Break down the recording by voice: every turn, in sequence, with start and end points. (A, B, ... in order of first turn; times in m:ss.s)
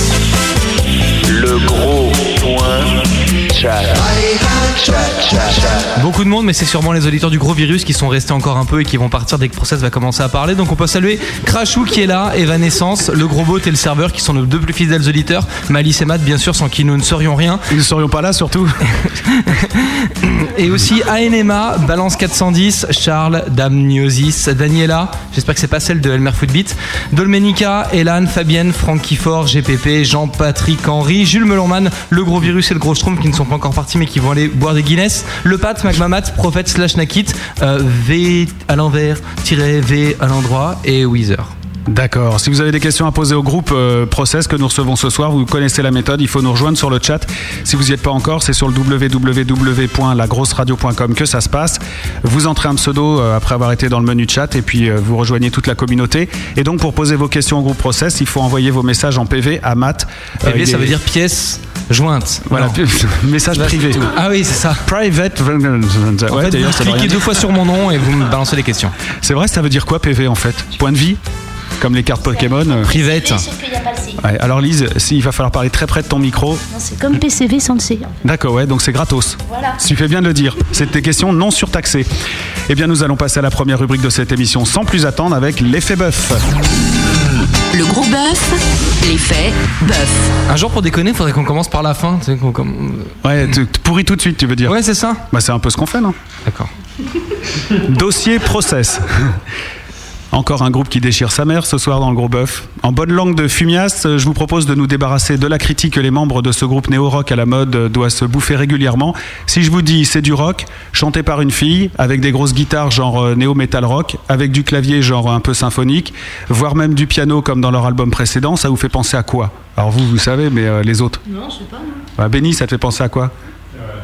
0:01.2-0:04.1 A
0:04.7-0:05.9 A
0:06.0-0:17.6 B
0:17.7-0:18.7 C
0:19.2-0:41.5 B
0:41.9-1:01.0 C
1:00.4-1:02.8 B
1:02.5-1:04.1 C
1:03.5-1:04.8 B
1:04.8-1:07.4 C
1:06.3-1:08.9 B
1:09.2-1:11.2 C
1:11.8-1:13.0 C
1:12.2-1:14.2 D
1:12.9-1:13.4 B
1:14.2-1:16.6 C
1:16.7-1:18.1 D
1:18.2-1:22.1 C
1:19.5-1:19.8 D
1:22.7-1:26.4 C
1:27.7-1:30.3 E
1:30.5-1:33.2 B
1:33.2-1:34.8 C
1:34.7-1:35.2 B
1:35.3-1:36.2 C
1:37.8-1:39.4 C
1:40.3-2:01.2 C
2:01.3-2:02.0 D
2:02.2-2:03.3 C